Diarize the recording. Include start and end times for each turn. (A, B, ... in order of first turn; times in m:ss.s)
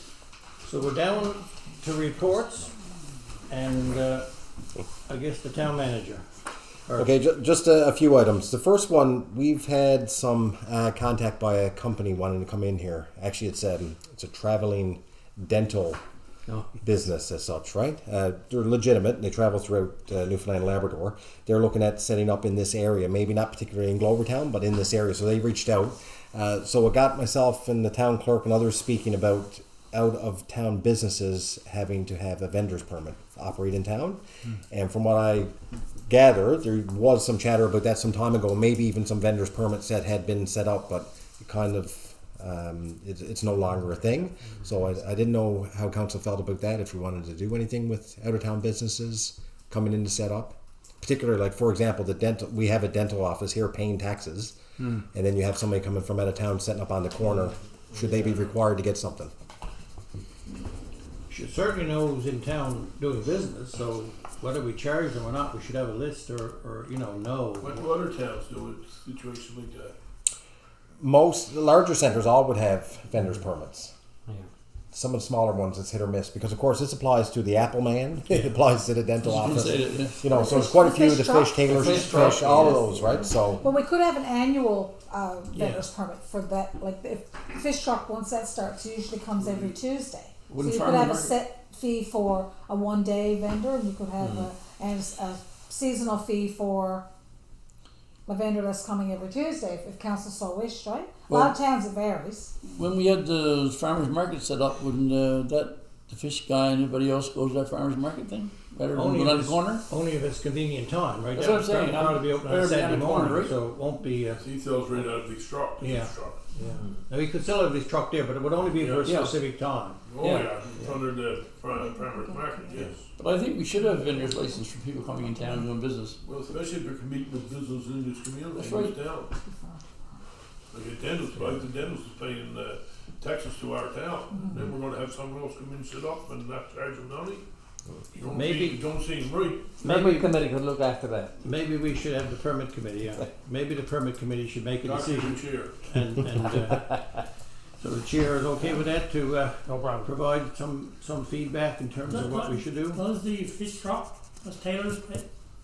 0:00.6-0:02.7 A
0:03.5-0:04.3 A
0:05.1-0:06.2 A
0:07.0-0:16.0 B
0:16.8-0:35.5 B
0:36.1-0:54.6 B
0:55.1-0:59.3 B
1:01.3-1:07.9 A
1:07.6-1:10.0 C
1:11.0-1:13.9 B
1:14.9-1:23.6 B
1:19.2-1:20.3 D
1:20.3-1:21.9 E
1:21.7-1:22.4 D
1:21.8-1:23.2 F
1:23.6-1:37.1 E
1:25.5-1:25.8 G
1:30.5-1:31.4 D
1:34.2-1:34.5 F
1:38.2-1:42.5 E
1:41.3-1:41.6 D
1:42.6-1:49.8 D
1:48.9-1:54.4 A
1:51.3-1:53.6 D
1:54.4-1:56.4 C
1:55.8-2:00.0 A
1:58.7-1:59.3 C
1:59.0-1:59.3 D
2:00.1-2:03.0 C
2:00.2-2:00.5 D
2:01.7-2:02.8 E
2:03.2-2:06.2 D
2:06.2-2:09.3 C
2:08.5-2:09.0 D
2:09.5-2:09.8 E
2:10.7-2:17.4 C
2:18.1-2:19.7 C
2:18.3-2:18.8 A
2:19.8-2:21.3 F
2:19.8-2:20.3 A
2:21.4-2:27.0 A
2:24.8-2:25.9 C
2:27.8-2:33.0 A
2:29.7-2:30.0 F
2:32.1-2:35.3 G